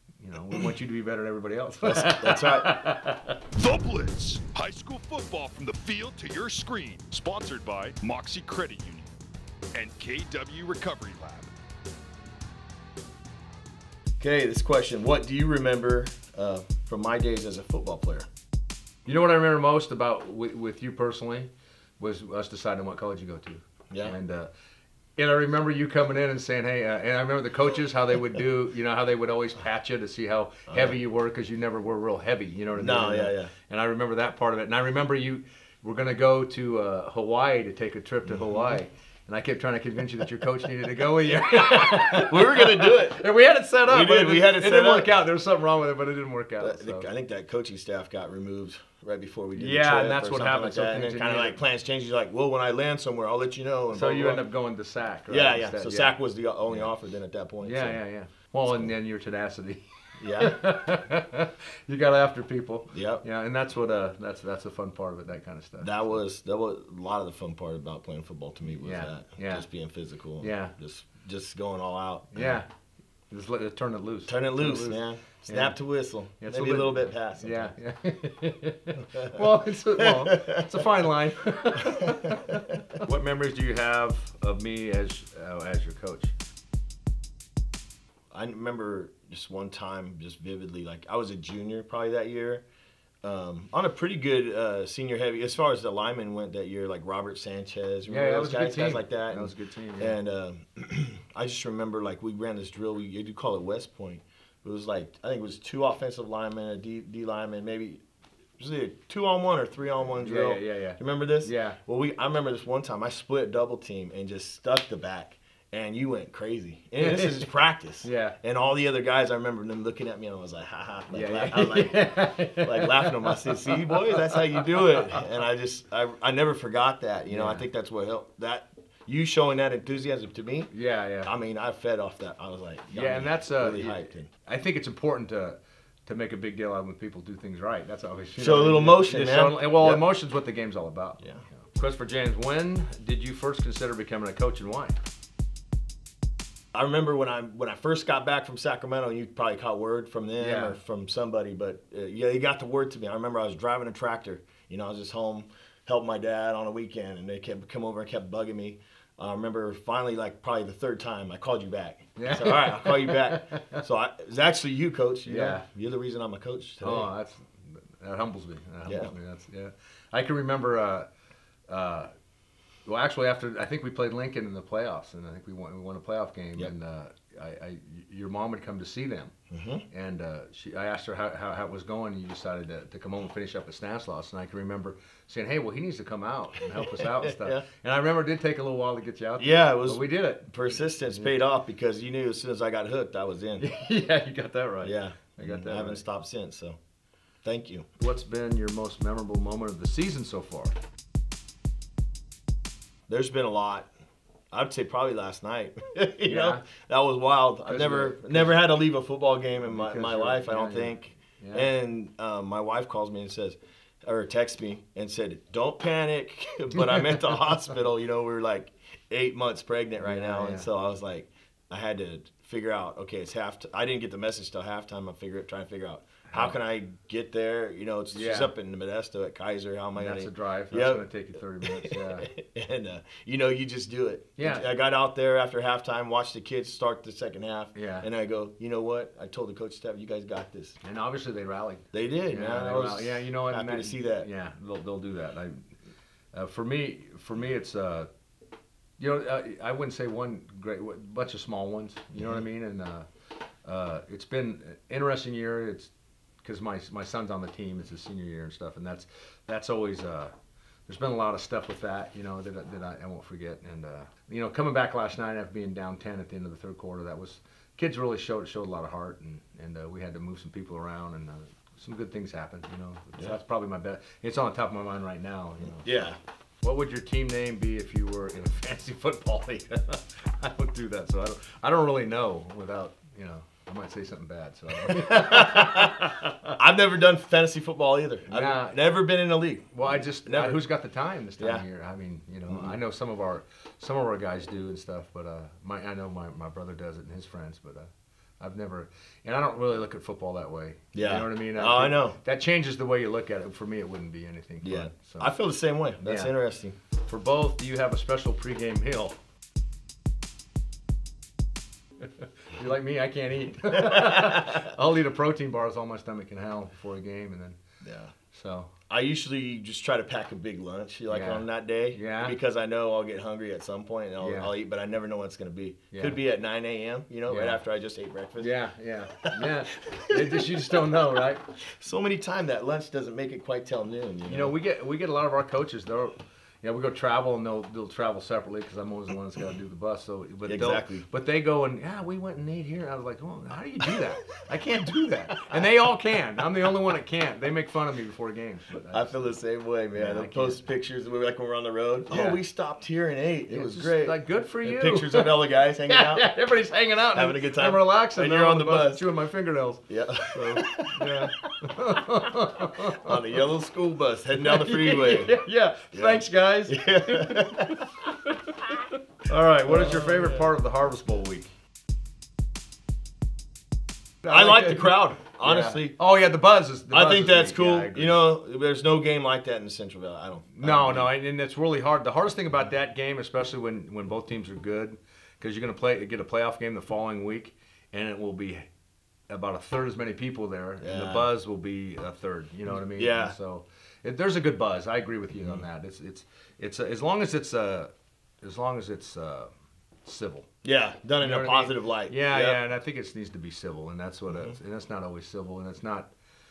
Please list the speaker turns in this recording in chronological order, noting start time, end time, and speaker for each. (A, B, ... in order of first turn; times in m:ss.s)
0:00.2-0:03.4 A
0:01.8-0:02.8 B
0:03.5-0:09.1 C
0:09.7-0:11.5 C
0:14.2-0:18.3 B
0:19.0-0:24.5 A
0:23.9-0:24.2 B
0:25.2-0:47.0 A
0:30.7-0:31.0 B
0:32.8-0:33.5 B
0:38.3-0:38.8 B
0:41.9-0:43.2 B
0:43.8-0:45.1 B
0:46.6-0:54.4 B
0:49.5-0:51.6 A
0:53.9-0:56.2 A
0:55.3-0:58.0 B
0:57.6-0:59.8 A
0:58.6-0:58.9 B
1:00.2-1:00.6 B
1:00.3-1:06.2 A
1:02.9-1:03.2 B
1:05.8-1:12.6 B
1:08.7-1:09.6 A
1:10.4-1:10.7 A
1:12.3-1:12.7 A
1:13.3-1:15.8 A
1:14.3-1:17.7 B
1:16.4-1:26.3 A
1:19.0-1:19.4 B
1:20.0-1:20.7 B
1:21.9-1:22.6 B
1:28.3-1:32.6 B
1:33.2-1:48.0 B
1:38.1-1:40.2 A
1:48.6-2:14.3 B
1:50.2-1:51.8 A
1:57.0-1:57.5 A
1:58.0-1:58.4 A
2:01.1-2:05.2 A
2:07.3-2:07.6 A
2:10.7-2:11.3 A
2:12.9-2:25.0 A
2:18.4-2:20.0 B
2:26.7-2:47.1 B
2:30.4-2:30.8 A
2:42.2-2:43.8 A
2:45.2-2:45.6 A
2:46.8-2:51.1 A
2:48.8-2:49.1 B
2:51.7-2:52.1 A
2:52.8-2:59.3 A
2:59.5-2:59.8 B
2:59.9-3:11.3 A
3:06.8-3:07.6 B
3:09.4-3:13.7 B
3:13.6-3:16.0 A
3:14.8-3:16.8 B
3:17.4-3:17.9 B
3:18.0-3:20.7 A
3:23.1-3:23.9 B
3:24.5-3:51.0 B
3:26.2-3:26.6 A
3:27.6-3:28.6 A
3:29.6-3:31.7 A
3:36.8-3:37.2 A
3:40.0-3:40.7 A
3:46.3-3:46.6 A
3:48.1-3:48.5 A
3:50.0-3:52.3 A
3:51.6-4:00.8 B
3:54.4-3:54.7 A
3:57.7-3:58.1 A
4:00.8-4:05.7 A
4:01.9-4:04.3 B
4:06.3-4:08.1 A
4:09.0-4:13.1 A
4:12.2-4:12.4 B
4:13.6-4:15.9 A
4:16.4-4:20.3 A
4:20.9-4:36.1 A
4:35.8-4:36.2 B
4:36.6-4:46.5 A
4:44.9-4:45.9 B
4:46.6-4:50.6 B
4:48.3-4:48.8 A
4:49.7-5:05.3 A
4:51.4-4:51.6 B
4:52.5-4:52.8 B
5:00.9-5:02.2 B
5:04.6-5:06.8 B
5:06.0-5:06.3 A
5:07.1-5:09.2 A
5:12.0-5:17.6 A
5:13.8-5:14.6 B
5:17.8-5:18.1 B
5:18.3-5:18.7 A
5:18.9-5:28.5 B
5:21.1-5:22.4 A
5:24.2-5:24.5 A
5:25.9-5:26.2 A
5:27.3-5:27.6 A
5:28.4-5:31.5 A
5:29.3-5:30.2 B
5:31.6-5:34.5 B
5:34.2-5:49.3 A
5:40.4-5:41.0 B
5:48.9-5:56.3 B
5:49.9-5:50.6 A
5:52.1-5:52.4 A
5:53.5-5:55.3 A
5:55.9-6:03.4 A
5:57.1-5:59.0 B
5:59.9-6:01.3 B
6:02.8-6:05.4 B
6:04.3-6:11.5 A
6:05.9-6:07.9 B
6:09.7-6:10.5 B
6:14.2-6:15.9 B
6:14.2-6:18.2 A
6:16.9-6:21.1 B
6:20.5-6:28.7 A
6:29.3-6:37.9 A
6:30.8-6:31.3 B
6:32.7-6:33.3 B
6:35.4-6:35.6 B
6:38.4-6:39.5 A
6:40.0-6:40.5 A
6:40.6-6:42.6 B
6:41.2-6:46.1 A
6:44.3-6:44.5 B